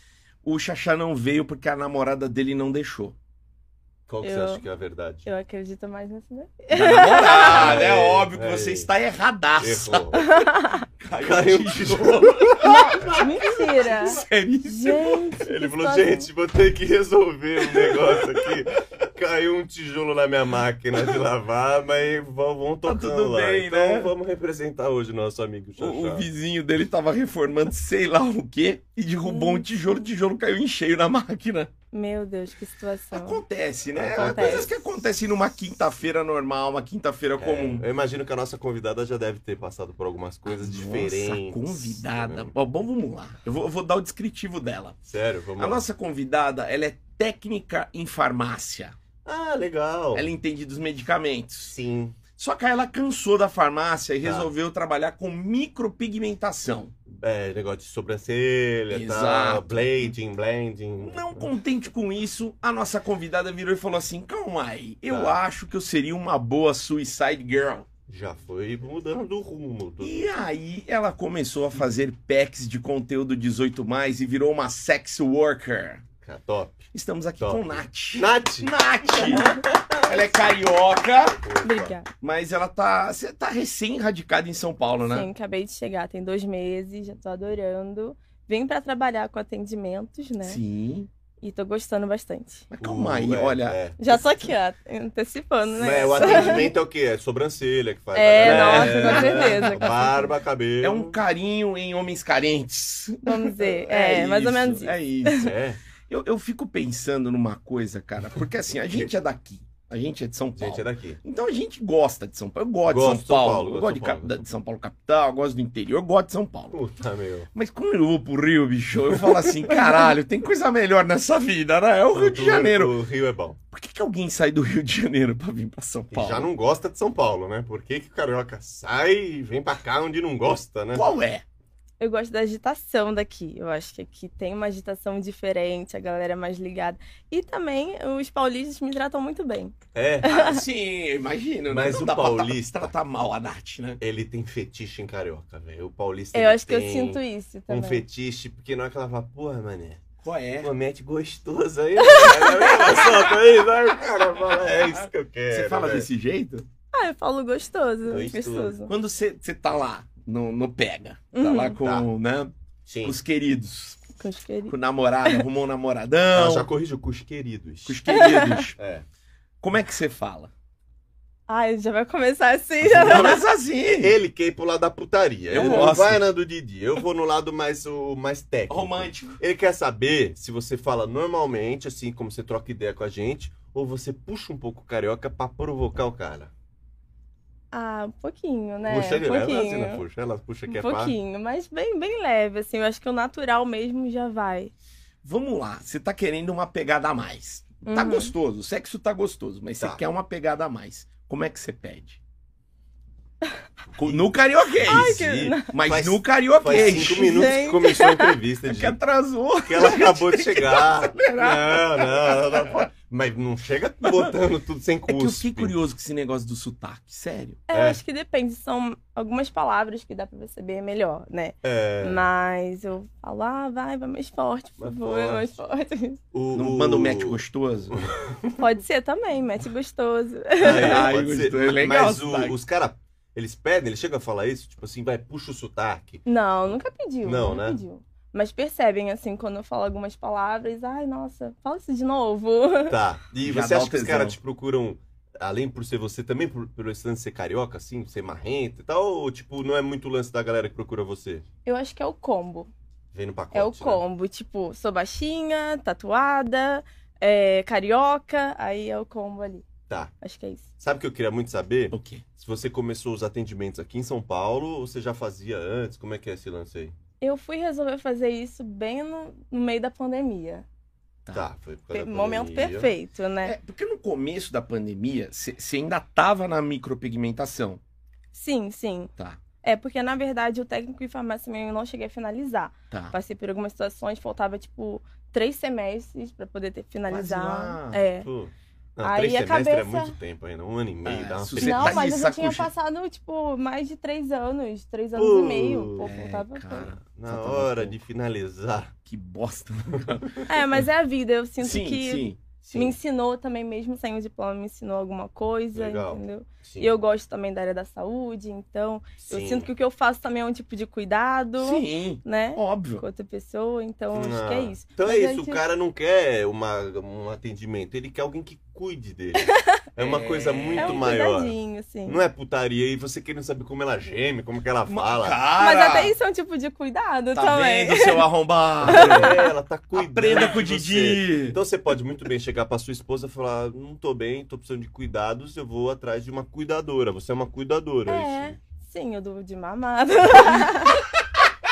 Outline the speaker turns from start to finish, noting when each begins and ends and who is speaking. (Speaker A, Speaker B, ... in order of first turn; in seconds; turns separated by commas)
Speaker A: 0.4-3.1, Speaker B: 4.1-5.3, Speaker C: 4.2-4.6, Speaker C: 5.2-7.8, Speaker A: 6.7-10.2, Speaker B: 6.8-8.9, Speaker B: 9.6-10.3, Speaker C: 10.1-10.9, Speaker A: 11.0-15.2, Speaker B: 11.1-13.3, Speaker C: 12.6-16.3, Speaker B: 15.4-26.3, Speaker A: 17.6-18.5, Speaker A: 22.9-24.1, Speaker A: 25.8-31.7, Speaker C: 29.2-29.6, Speaker C: 31.9-33.4, Speaker A: 33.1-37.9, Speaker B: 33.9-34.7, Speaker C: 34.1-34.8, Speaker B: 37.4-42.5, Speaker A: 40.4-45.0, Speaker B: 45.0-45.8, Speaker A: 45.6-49.0, Speaker B: 49.2-50.3, Speaker A: 50.1-51.7, Speaker B: 51.7-52.2, Speaker A: 52.3-56.9, Speaker B: 54.2-54.5, Speaker B: 57.1-61.5, Speaker A: 58.9-59.9, Speaker A: 61.0-67.9, Speaker B: 65.1-65.4, Speaker B: 68.1-70.2, Speaker A: 70.0-76.0, Speaker B: 76.2-76.9, Speaker A: 76.9-81.4, Speaker B: 77.4-80.3, Speaker B: 81.4-81.9, Speaker C: 81.6-82.1, Speaker A: 82.2-85.3, Speaker C: 85.0-90.6, Speaker A: 90.4-91.1, Speaker C: 91.4-92.7, Speaker A: 92.7-94.2, Speaker B: 92.8-94.0, Speaker C: 94.0-96.7, Speaker B: 95.7-101.2, Speaker C: 98.1-100.2, Speaker A: 98.4-99.9, Speaker A: 100.8-105.4, Speaker C: 103.2-105.5, Speaker B: 105.3-105.8, Speaker A: 106.1-116.8, Speaker B: 110.5-111.2, Speaker B: 112.9-114.4, Speaker B: 116.7-117.5, Speaker A: 117.5-122.9, Speaker B: 119.1-119.9, Speaker B: 122.1-123.6, Speaker A: 123.7-126.5, Speaker B: 126.1-131.1, Speaker A: 130.9-131.4, Speaker C: 132.0-140.6, Speaker B: 139.9-140.4, Speaker A: 140.2-144.0, Speaker B: 141.7-142.9, Speaker B: 144.0-150.0, Speaker C: 146.3-148.0, Speaker A: 150.2-150.7, Speaker B: 150.6-156.1, Speaker C: 152.0-152.8, Speaker A: 155.5-156.7, Speaker C: 156.9-158.9, Speaker B: 158.1-158.8, Speaker A: 158.9-162.5, Speaker C: 161.3-161.8, Speaker B: 161.8-162.1, Speaker B: 162.8-163.2, Speaker A: 163.0-164.1, Speaker C: 164.2-165.4, Speaker A: 164.7-166.7, Speaker B: 166.3-168.0, Speaker A: 167.9-168.8, Speaker C: 168.1-168.6, Speaker B: 168.8-169.0, Speaker A: 169.6-170.5, Speaker C: 171.5-173.4, Speaker B: 172.8-186.5, Speaker A: 173.0-174.2, Speaker A: 175.5-176.2, Speaker A: 178.7-179.4, Speaker C: 187.7-190.0, Speaker B: 188.8-191.1, Speaker C: 190.7-194.7, Speaker A: 195.2-202.2, Speaker C: 197.8-198.3, Speaker A: 203.9-205.2, Speaker B: 204.0-209.0, Speaker C: 204.8-205.7, Speaker A: 205.7-207.5, Speaker C: 207.1-208.4, Speaker A: 208.7-212.4, Speaker B: 209.7-215.7, Speaker A: 215.1-217.6, Speaker C: 217.7-226.2, Speaker B: 217.7-218.0, Speaker B: 221.6-222.2, Speaker B: 224.8-225.5, Speaker B: 226.3-227.4, Speaker A: 226.5-228.0, Speaker B: 227.9-228.6, Speaker C: 228.6-231.1, Speaker B: 230.6-237.8, Speaker A: 230.6-232.6, Speaker C: 236.2-243.0, Speaker B: 242.9-251.4, Speaker A: 243.4-244.4, Speaker C: 251.6-252.7, Speaker B: 253.1-254.0, Speaker C: 253.5-259.6, Speaker C: 260.2-260.7, Speaker B: 260.8-266.9, Speaker A: 261.9-262.2, Speaker C: 267.2-270.6, Speaker B: 271.3-272.9, Speaker C: 271.9-273.5, Speaker A: 273.4-277.8, Speaker C: 278.3-279.1, Speaker C: 279.6-288.3, Speaker A: 287.1-288.0, Speaker B: 288.2-292.1, Speaker C: 289.0-290.1, Speaker A: 291.0-292.7, Speaker C: 291.6-296.9, Speaker B: 295.1-296.1, Speaker A: 296.0-298.0, Speaker B: 297.0-298.9, Speaker A: 299.0-300.6, Speaker C: 300.5-315.6, Speaker A: 301.6-302.4, Speaker B: 302.6-302.9, Speaker B: 305.7-306.9, Speaker B: 309.2-309.7, Speaker A: 311.6-313.0, Speaker B: 314.1-325.4, Speaker C: 319.4-319.8, Speaker A: 320.0-321.1, Speaker C: 320.7-322.2, Speaker A: 324.9-326.1, Speaker C: 325.6-328.2, Speaker A: 327.3-329.4, Speaker B: 328.8-338.6, Speaker C: 328.9-329.5, Speaker A: 329.9-331.6, Speaker C: 338.1-341.1